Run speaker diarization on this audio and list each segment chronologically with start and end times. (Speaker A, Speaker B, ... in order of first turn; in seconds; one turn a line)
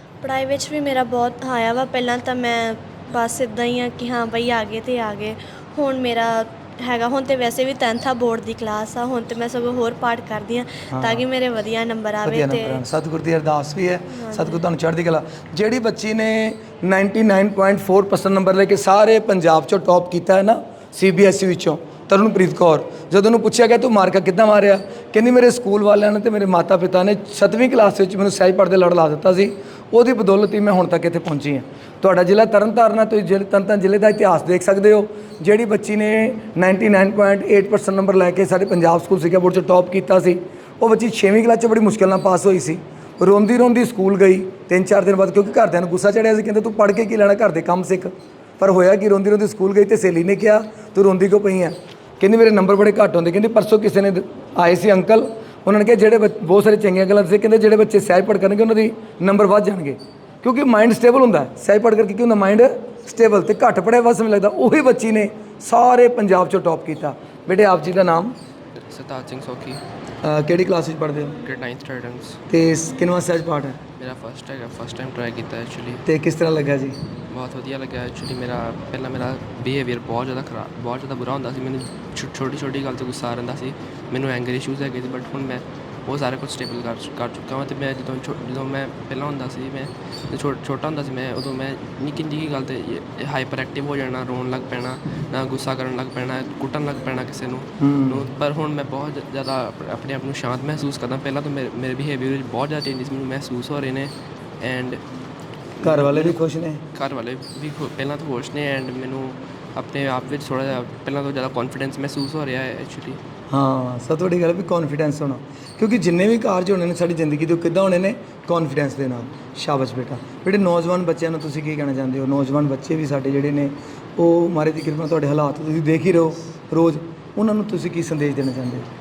Speaker A: 0.2-12.8
Speaker B: 10.9-11.2
Speaker B: 12.2-68.3
Speaker A: 14.1-14.6
Speaker C: 68.9-69.8
Speaker B: 70.2-71.4
Speaker C: 71.5-72.4
Speaker B: 72.5-73.8
Speaker C: 74.0-76.0
Speaker B: 76.0-77.0
Speaker C: 77.3-105.0
Speaker B: 97.8-98.3
Speaker C: 105.8-106.4
Speaker B: 105.8-106.8
Speaker C: 106.9-113.2
Speaker B: 113.5-128.9